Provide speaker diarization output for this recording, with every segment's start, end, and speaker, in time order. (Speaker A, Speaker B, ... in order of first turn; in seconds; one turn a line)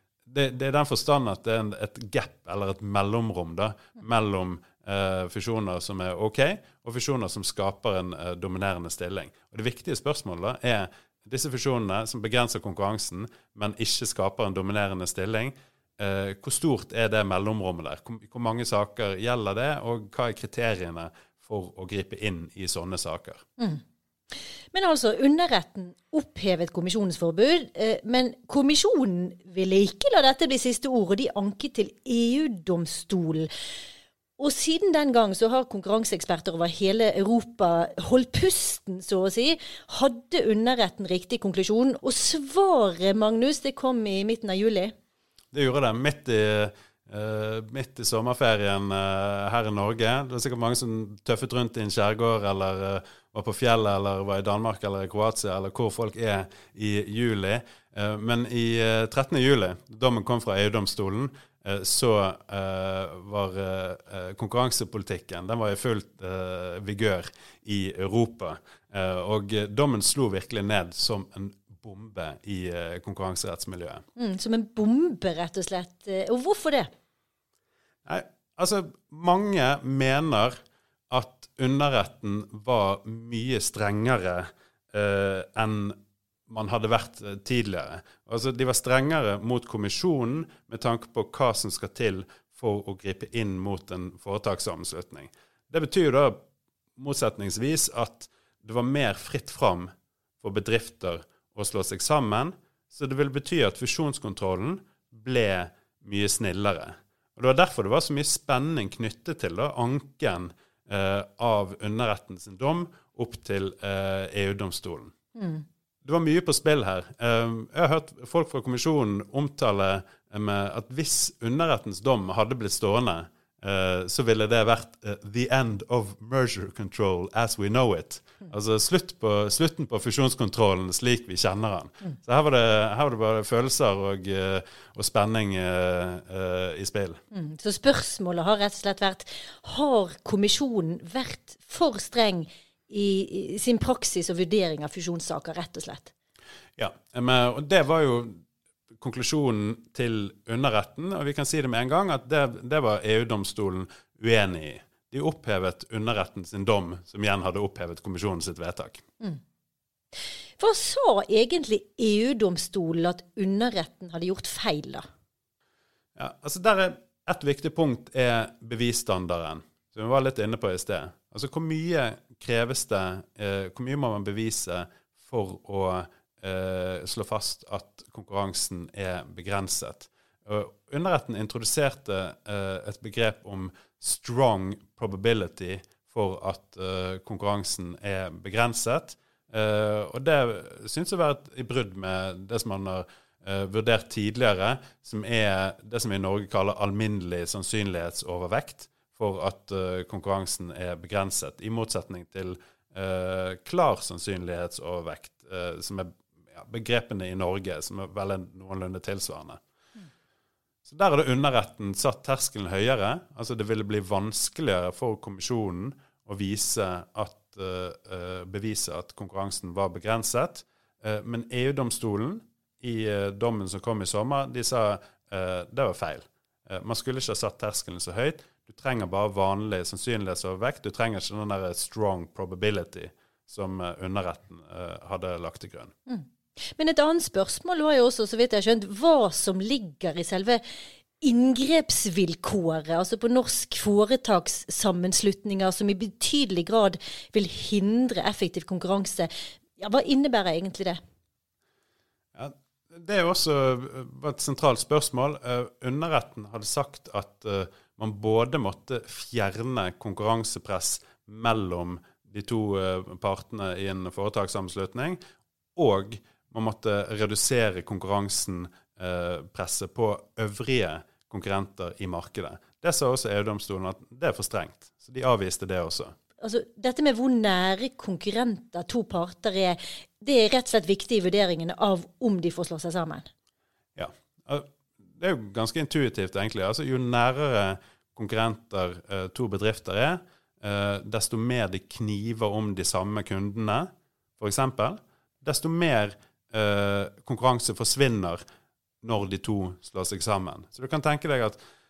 Speaker A: 0.2-23.4
Speaker B: 24.7-33.5
Speaker B: 34.4-44.9
Speaker A: 45.5-74.0
Speaker B: 74.2-76.9
Speaker A: 78.0-80.6
Speaker A: 81.1-96.4
Speaker A: 97.0-115.1
Speaker B: 115.3-115.6
Speaker A: 116.0-137.2
Speaker B: 137.3-146.1
Speaker A: 146.8-148.4
Speaker A: 149.0-159.0
Speaker B: 160.6-165.1
Speaker A: 166.2-209.6
Speaker A: 210.8-235.9
Speaker B: 236.1-240.6
Speaker B: 241.2-251.0
Speaker A: 252.3-265.2
Speaker A: 265.8-276.1
Speaker B: 276.4-283.3
Speaker A: 283.9-298.4
Speaker A: 299.0-301.6